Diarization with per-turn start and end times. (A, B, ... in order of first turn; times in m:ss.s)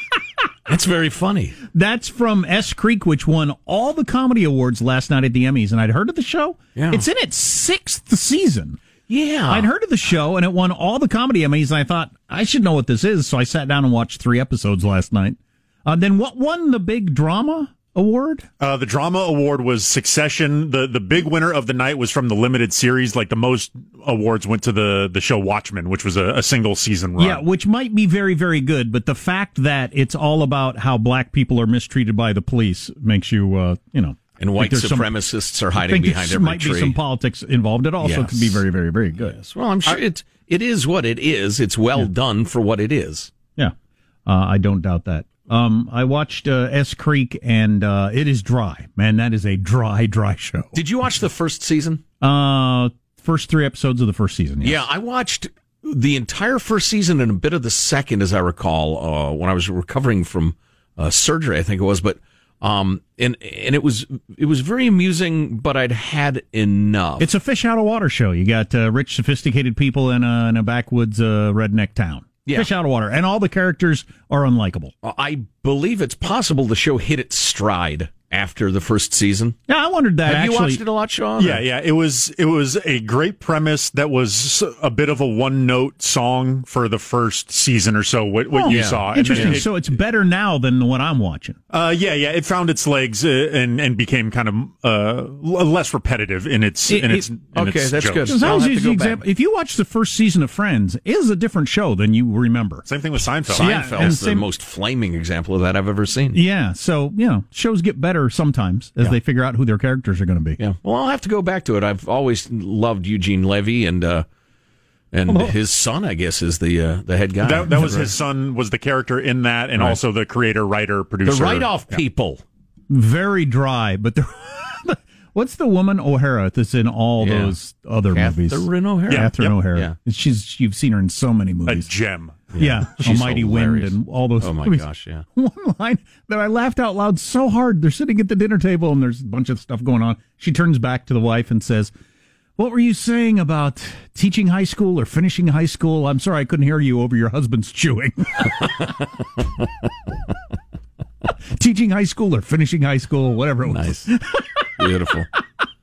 0:00.7-0:01.6 A
0:01.7-0:08.8 B
0:06.7-0:07.0 A
0:09.1-0:09.7 A
0:09.5-0:18.4 B
0:18.6-0:27.4 C
0:27.2-0:35.1 B
0:34.4-0:37.0 A
0:35.8-0:40.0 B
0:38.0-0:38.6 A
0:39.2-0:43.3 A
0:44.2-0:50.8 B
0:50.7-0:52.0 A
0:52.2-0:54.8 B
0:54.6-1:07.3 A
1:07.2-1:14.9 B
1:15.0-1:19.6 A
1:19.7-1:20.8 B
1:20.2-1:21.6 A
1:21.4-1:29.7 C
1:28.5-1:31.6 B
1:28.7-1:29.6 A
1:31.7-1:38.6 C
1:36.9-1:37.3 B
1:37.5-1:39.2 A
1:38.2-1:42.9 B
1:42.8-1:44.1 C
1:43.4-1:46.4 A
1:43.5-1:44.4 B
1:46.3-1:50.6 B
1:50.6-1:54.2 A
1:55.1-1:58.2 A
1:55.3-1:55.5 B
1:57.4-2:02.0 C
1:57.7-1:58.1 B
2:01.2-2:02.4 A
2:02.9-2:11.9 B
2:07.2-2:07.5 A
2:08.1-2:09.9 A
2:09.1-2:09.6 C
2:11.7-2:12.5 C
2:12.5-2:15.2 A
2:12.6-2:21.9 B
2:22.6-2:28.6 B
2:31.6-2:34.9 B
2:33.6-2:34.1 A
2:34.8-2:35.3 A